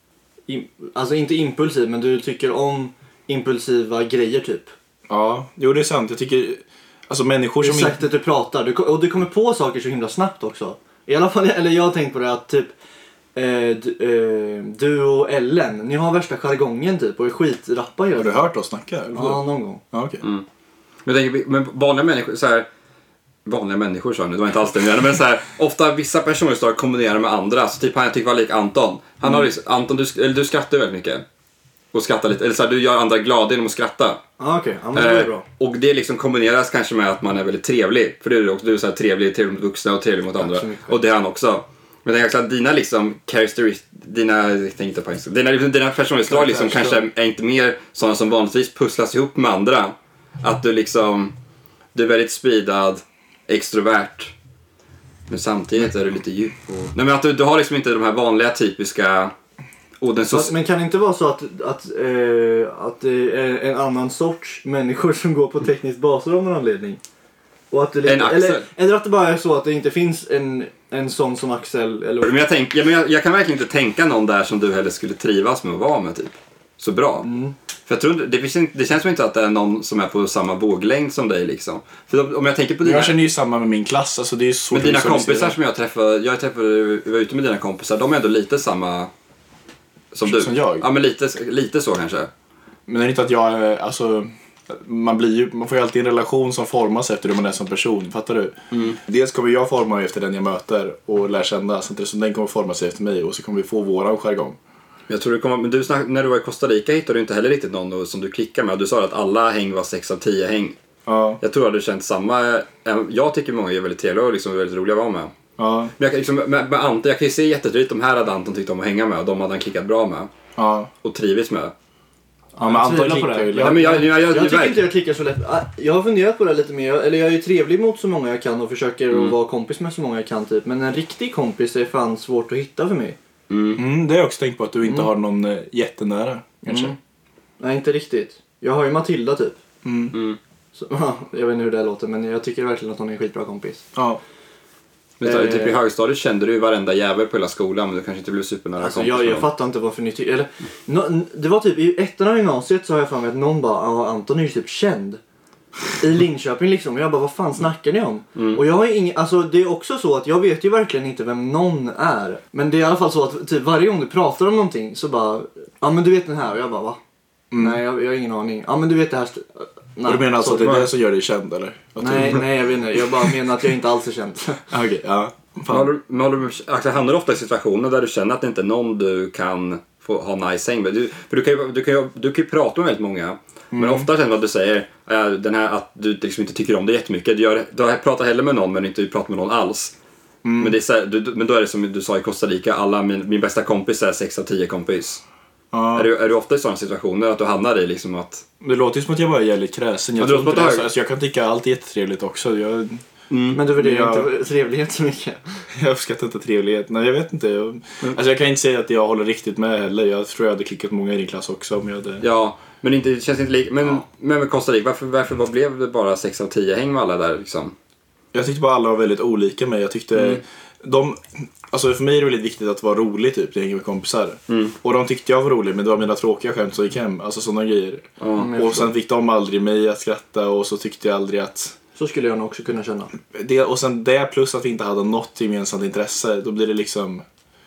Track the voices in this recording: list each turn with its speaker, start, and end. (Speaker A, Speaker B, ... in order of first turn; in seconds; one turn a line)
Speaker A: 0.5-4.7
Speaker B: 5.1-8.0
Speaker A: 7.6-12.7
Speaker A: 13.3-18.4
Speaker B: 18.1-20.2
Speaker A: 19.1-19.8
Speaker C: 21.0-22.7
Speaker C: 23.4-31.2
Speaker C: 31.9-34.2
Speaker A: 34.4-35.4
Speaker C: 34.9-51.3
Speaker A: 40.4-40.9
Speaker B: 46.3-47.0
Speaker C: 51.9-54.3
Speaker C: 55.3-59.3
Speaker C: 60.0-60.5
Speaker A: 60.3-67.0
Speaker A: 67.7-72.3
Speaker C: 68.0-68.7
Speaker C: 72.2-77.3
Speaker A: 77.2-77.5
Speaker C: 77.9-83.2
Speaker B: 82.8-85.5
Speaker C: 84.7-89.1
Speaker C: 90.1-92.3
Speaker B: 90.2-90.8
Speaker B: 92.9-104.6
Speaker C: 98.7-99.0
Speaker C: 105.1-110.8
Speaker B: 111.0-111.4
Speaker C: 111.4-115.3
Speaker B: 115.6-115.9
Speaker C: 116.0-120.3
Speaker B: 120.5-120.9
Speaker C: 121.0-121.7
Speaker A: 122.5-133.2
Speaker B: 122.6-124.0
Speaker C: 123.5-124.9
Speaker C: 129.1-129.3
Speaker C: 133.5-133.8
Speaker B: 133.8-136.9
Speaker A: 134.8-135.1
Speaker A: 136.7-137.0
Speaker A: 137.6-139.6
Speaker B: 139.8-140.2
Speaker C: 140.1-140.4
Speaker A: 140.7-143.9
Speaker B: 143.9-144.2
Speaker C: 145.2-149.5
Speaker A: 145.2-145.8
Speaker A: 148.8-155.2
Speaker A: 156.0-167.0
Speaker C: 158.3-158.6
Speaker B: 167.5-167.8
Speaker A: 167.6-170.9
Speaker B: 170.0-172.7
Speaker A: 172.0-174.6
Speaker B: 174.7-175.9
Speaker C: 175.7-189.9
Speaker B: 183.7-184.1
Speaker B: 190.4-190.8
Speaker C: 190.6-195.2
Speaker B: 195.7-196.1
Speaker C: 195.9-198.4
Speaker B: 198.6-203.0
Speaker C: 200.2-200.9
Speaker C: 203.3-203.6
Speaker A: 203.5-205.4
Speaker B: 203.7-204.3
Speaker B: 205.8-212.2
Speaker C: 212.2-217.7
Speaker B: 218.3-231.7
Speaker C: 220.1-220.4
Speaker C: 224.5-224.8
Speaker C: 228.2-228.5
Speaker A: 228.3-228.9
Speaker A: 231.9-233.1
Speaker B: 233.3-237.2